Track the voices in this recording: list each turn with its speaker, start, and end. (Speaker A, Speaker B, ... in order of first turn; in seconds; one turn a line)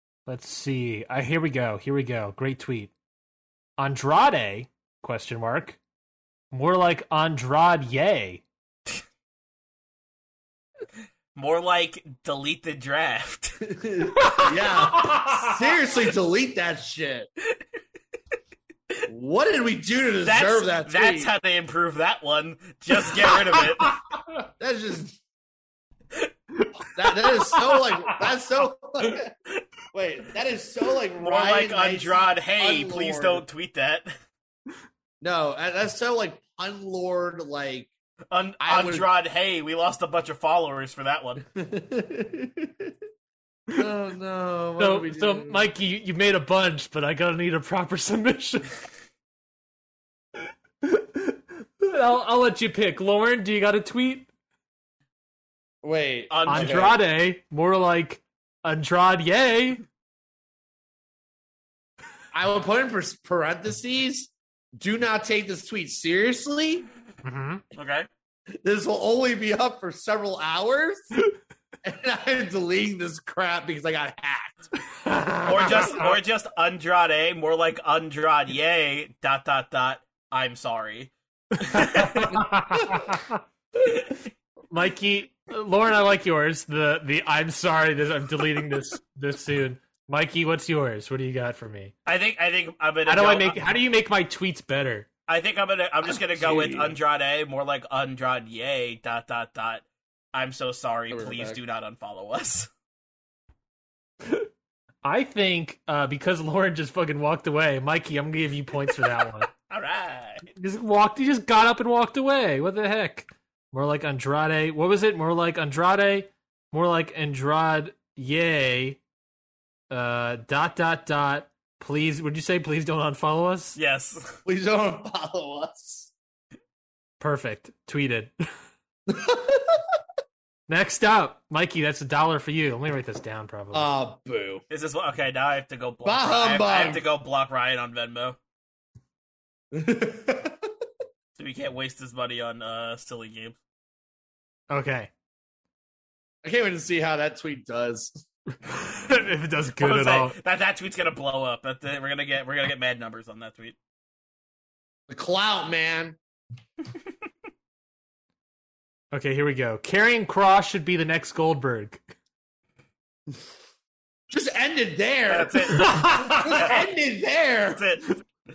Speaker A: 0.2-2.9
Speaker A: 3.8-5.8
Speaker A: 6.5-8.4
Speaker B: 11.3-13.6
Speaker C: 13.6-17.3
Speaker A: 14.2-15.5
Speaker C: 19.1-21.3
Speaker B: 20.2-23.9
Speaker A: 23.6-24.3
Speaker C: 24.6-25.2
Speaker A: 26.6-28.2
Speaker C: 26.9-29.3
Speaker C: 29.9-33.5
Speaker B: 31.2-34.1
Speaker C: 35.2-37.9
Speaker B: 38.3-41.4
Speaker C: 38.6-39.1
Speaker C: 41.5-42.9
Speaker C: 43.7-45.7
Speaker A: 44.8-48.7
Speaker A: 50.8-54.3
Speaker C: 55.8-57.0
Speaker B: 56.3-56.9
Speaker A: 56.5-59.8
Speaker C: 62.3-66.9
Speaker A: 67.2-67.6
Speaker B: 67.7-68.1
Speaker C: 68.6-71.0
Speaker C: 71.8-74.7
Speaker A: 74.9-76.1
Speaker B: 75.4-82.4
Speaker A: 81.6-83.4
Speaker A: 84.7-91.9
Speaker B: 92.0-93.7
Speaker A: 93.0-95.1
Speaker B: 95.3-102.7
Speaker C: 96.0-97.0
Speaker C: 101.1-101.6
Speaker A: 105.0-109.5
Speaker B: 109.7-110.4
Speaker A: 110.5-119.0
Speaker A: 119.9-123.8
Speaker B: 123.8-124.4
Speaker C: 124.5-126.1
Speaker A: 127.2-128.3
Speaker C: 129.1-129.9
Speaker A: 130.7-133.9
Speaker C: 133.7-134.6
Speaker B: 134.7-138.4
Speaker C: 136.0-137.0
Speaker C: 139.7-140.7
Speaker B: 141.3-143.6
Speaker A: 144.7-145.1
Speaker C: 146.4-148.2
Speaker A: 148.6-150.3
Speaker B: 149.8-153.7
Speaker C: 155.1-156.2
Speaker A: 159.1-162.0
Speaker C: 164.3-167.9
Speaker B: 165.3-166.9
Speaker A: 165.8-166.5
Speaker B: 167.7-168.2